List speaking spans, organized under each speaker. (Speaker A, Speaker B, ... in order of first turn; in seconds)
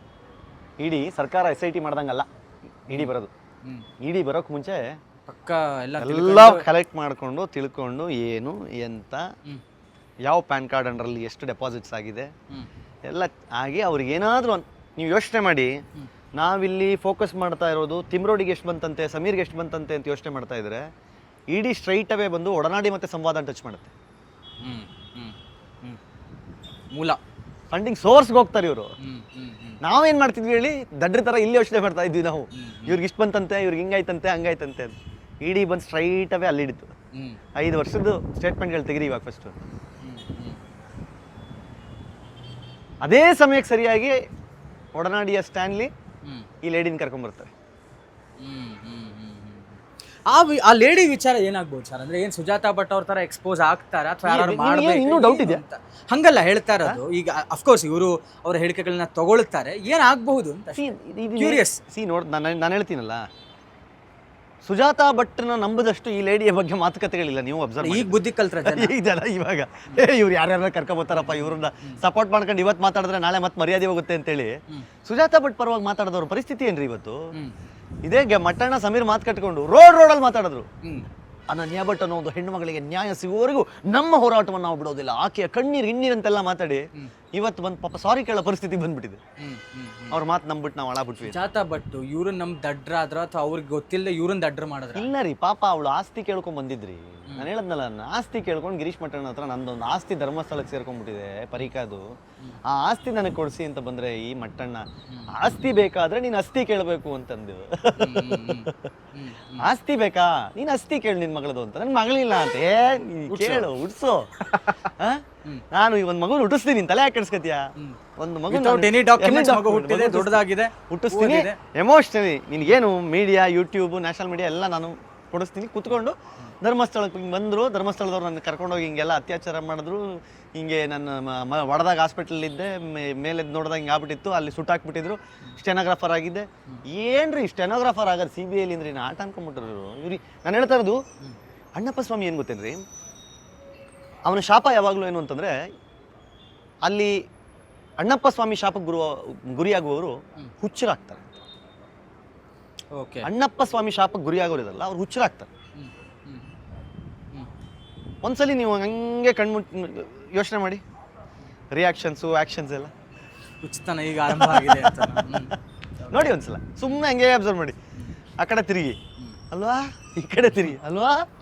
Speaker A: 0.8-2.3, 2.9-3.3, 4.0-4.8, 6.0-9.3, 10.2-12.3, 13.1-15.7, 16.3-20.8, 21.5-23.9, 27.7-28.9, 29.8-36.9, 37.5-39.6, 43.0-44.1, 44.9-45.9, 46.6-47.5, 54.2-55.6, 60.8-63.2, 64.6-77.2, 78.0-80.7, 81.5-89.2, 90.1-91.4, 94.9-102.0, 102.7-108.8, 109.6-117.7, 118.2-141.0, 141.8-142.8, 144.2-145.6, 146.8-147.1, 148.0-151.3, 153.2-155.5, 158.2-160.8, 161.7-162.9, 164.3-165.4, 166.1-167.8, 168.4-169.0, 169.5-171.2
Speaker B: 5.3-6.7, 24.6-26.0, 26.9-27.2, 29.0-29.8, 32.5-33.0, 37.1-37.4, 40.0-40.6, 48.4-61.8, 67.8-68.9, 71.1-72.0, 89.4-90.2, 91.2-95.1, 105.1-105.3, 108.0-109.7, 113.3-113.7, 118.5-121.6, 152.9-153.3, 155.8-156.5, 163.6-166.3